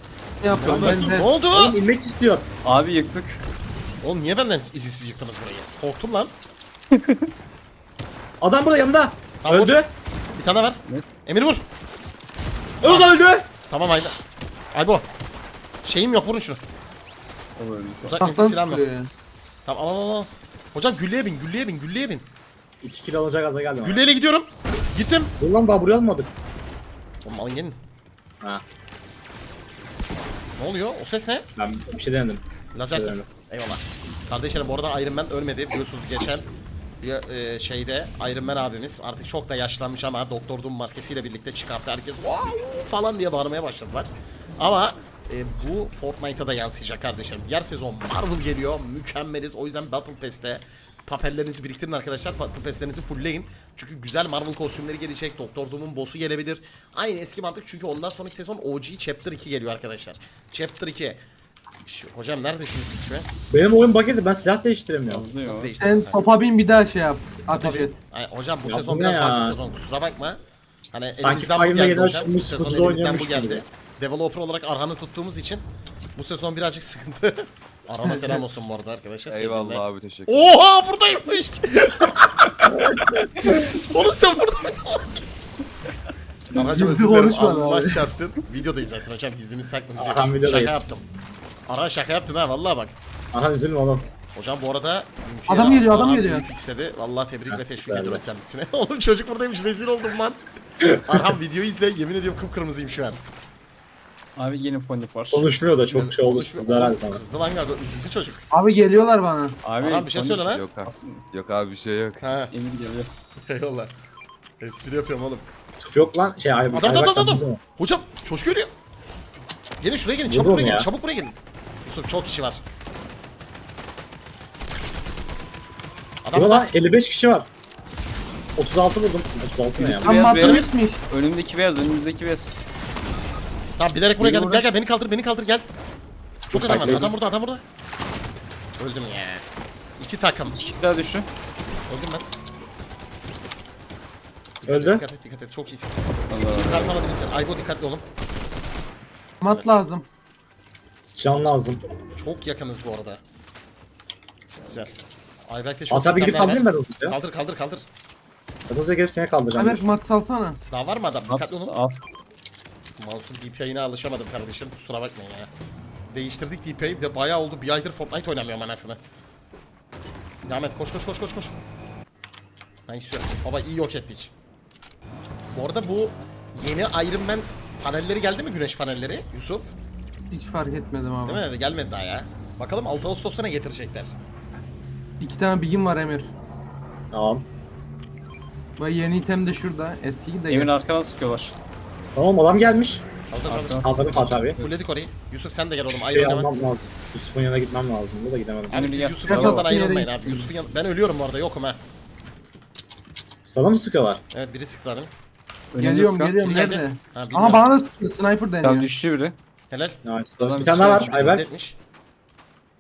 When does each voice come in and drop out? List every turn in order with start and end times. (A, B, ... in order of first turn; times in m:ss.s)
0:00.4-0:01.3 A
0:00.6-0:01.8 B
0:00.7-0:02.5 C
0:02.6-0:03.4 D
0:04.0-0:06.3 B
0:07.0-0:07.3 D
0:08.4-0:09.9 C
0:09.4-0:09.8 B
0:10.4-0:11.6 B
0:12.8-0:13.5 C
0:12.8-0:13.1 B
0:13.7-0:14.2 B
0:14.7-0:15.0 B
0:15.8-0:16.6 B
0:17.6-0:18.2 D
0:18.0-0:18.9 B
0:18.2-0:19.1 A
0:19.7-0:22.2 B
0:22.8-0:24.0 C
0:23.8-0:25.3 B
0:25.4-0:26.3 C
0:27.2-0:27.8 B
0:30.6-0:31.5 B
0:31.6-0:32.4 C
0:32.8-0:36.4 B
0:32.9-0:33.3 C
0:37.0-1:01.2 B
1:01.8-1:03.3 B
1:03.5-1:05.3 C
1:05.1-1:05.7 D
1:05.4-1:06.2 B
1:05.8-1:08.0 A
1:07.5-1:10.4 B
1:08.7-1:09.6 C
1:10.9-1:25.2 B
1:11.2-1:13.6 C
1:18.0-1:18.4 A
1:19.3-1:20.5 E
1:26.5-1:31.0 B
1:26.6-1:28.0 A
1:30.0-1:30.8 C
1:31.7-1:33.0 B
1:33.3-1:34.1 C
1:34.3-1:40.4 B
1:35.5-1:36.4 A
1:37.5-1:38.2 C
1:40.9-1:43.2 B
1:44.4-1:45.5 D
1:45.3-1:47.2 C
1:45.9-1:48.4 B
1:48.5-1:49.6 A
1:49.6-1:51.2 D
1:49.8-1:50.6 B
1:50.4-1:52.2 E
1:52.2-1:52.5 B
1:52.5-1:53.1 D
1:53.4-1:53.9 B
1:54.6-1:55.5 B
1:55.8-1:57.6 C
1:56.7-1:58.7 B
1:59.8-2:02.6 B
2:00.3-2:00.9 C
2:06.2-2:06.7 B
2:06.3-2:07.5 C
2:08.6-2:10.1 C
2:09.8-2:12.6 D
2:10.0-2:11.0 A
2:10.3-2:10.6 B
2:13.8-2:15.7 B
2:14.2-2:14.7 D
2:16.5-2:17.1 D
2:16.5-2:17.6 B
2:16.5-2:17.1 C
2:18.8-2:19.4 B
2:20.0-2:20.6 B
2:20.5-2:21.3 D
2:21.8-2:22.3 B
2:24.6-2:28.0 B
2:24.7-2:25.0 C
2:26.3-2:26.9 D
2:29.4-2:30.1 A
2:31.2-2:31.8 C
2:32.2-2:33.2 B
2:34.6-2:34.9 B
2:35.5-2:37.9 B
2:35.9-2:37.2 C
2:38.7-2:39.9 C
2:39.6-2:40.6 A
2:40.7-2:41.7 B
2:41.3-2:42.0 D
2:43.0-2:45.5 B
2:46.1-2:49.0 B
2:50.5-2:51.6 B
2:52.9-2:54.3 B
2:55.5-2:59.7 B
3:00.3-3:01.4 A
3:01.3-3:04.2 B
3:05.2-3:06.3 A
3:07.1-3:07.4 C
3:08.8-3:10.7 A
3:10.5-3:11.6 D
3:12.2-3:13.0 C
3:13.3-3:13.9 B
3:13.5-3:14.8 D
3:13.8-3:14.6 C
3:14.6-3:16.5 B
3:15.9-3:18.9 C
3:18.7-3:21.8 B
3:18.7-3:19.7 D
3:19.3-3:20.5 A
3:23.5-3:24.2 C
3:24.3-3:25.1 B
3:25.7-3:26.4 D
3:25.8-3:28.9 A
3:26.4-3:27.7 B
3:28.6-3:29.4 D
3:29.7-3:30.0 B
3:30.0-3:31.4 C
3:30.4-3:31.4 D
3:30.7-3:31.8 B